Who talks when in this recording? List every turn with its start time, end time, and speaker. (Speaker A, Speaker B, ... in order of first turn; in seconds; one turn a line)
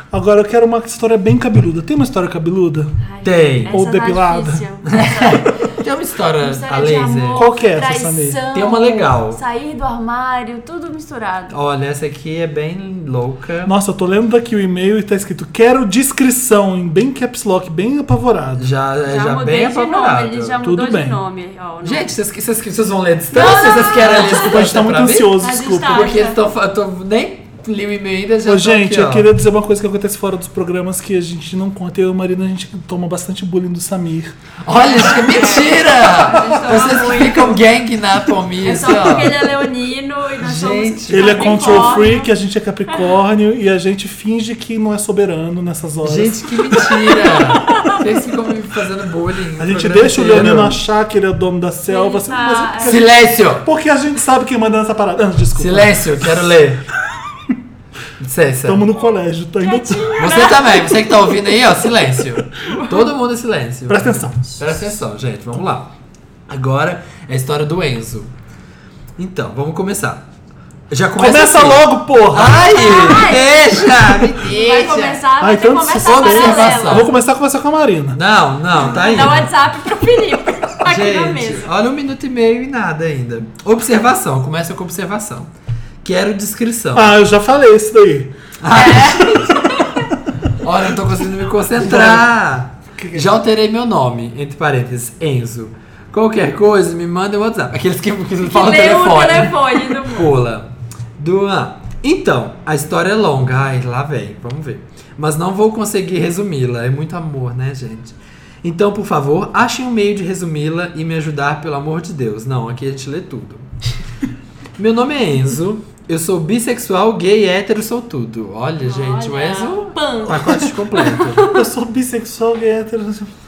Speaker A: 0.1-2.9
Speaker B: 3.0-5.7
Speaker C: 3.2-3.8
Speaker A: 3.7-4.6
Speaker C: 4.9-7.4
Speaker B: 6.4-11.5
Speaker A: 7.3-8.4
Speaker C: 8.5-9.4
Speaker C: 11.5-13.7
Speaker A: 13.6-18.6
Speaker C: 18.6-20.6
Speaker B: 19.1-22.1
Speaker A: 20.6-21.2
Speaker C: 21.8-29.3
Speaker B: 23.3-24.6
Speaker A: 23.9-26.1
Speaker B: 25.4-26.4
Speaker A: 28.4-34.4
Speaker C: 34.6-39.5
Speaker B: 34.7-37.6
Speaker B: 38.6-42.3
Speaker C: 40.4-42.0
Speaker A: 41.1-47.0
Speaker C: 46.0-50.8
Speaker B: 47.7-48.0
Speaker A: 49.6-56.5
Speaker B: 51.9-53.0
Speaker C: 52.8-53.7
Speaker C: 55.5-56.8
Speaker C: 58.2-58.9
Speaker A: 58.6-60.1
Speaker B: 59.6-61.1
Speaker C: 60.2-65.9
Speaker B: 62.6-63.0
Speaker A: 63.9-64.5
Speaker C: 66.5-68.3
Speaker C: 69.2-70.2
Speaker C: 70.9-75.2
Speaker A: 71.2-72.7
Speaker B: 72.5-77.1
Speaker A: 75.4-78.2
Speaker C: 76.0-77.1
Speaker C: 78.1-79.5
Speaker B: 78.9-81.7
Speaker C: 80.8-85.5
Speaker C: 86.0-87.1
Speaker A: 86.9-88.3
Speaker C: 88.6-89.4
Speaker B: 88.7-90.1
Speaker C: 90.6-113.7
Speaker A: 91.8-92.3
Speaker A: 93.0-93.3
Speaker B: 98.4-100.3
Speaker C: 114.8-121.5
Speaker B: 118.8-121.6
Speaker A: 121.4-123.3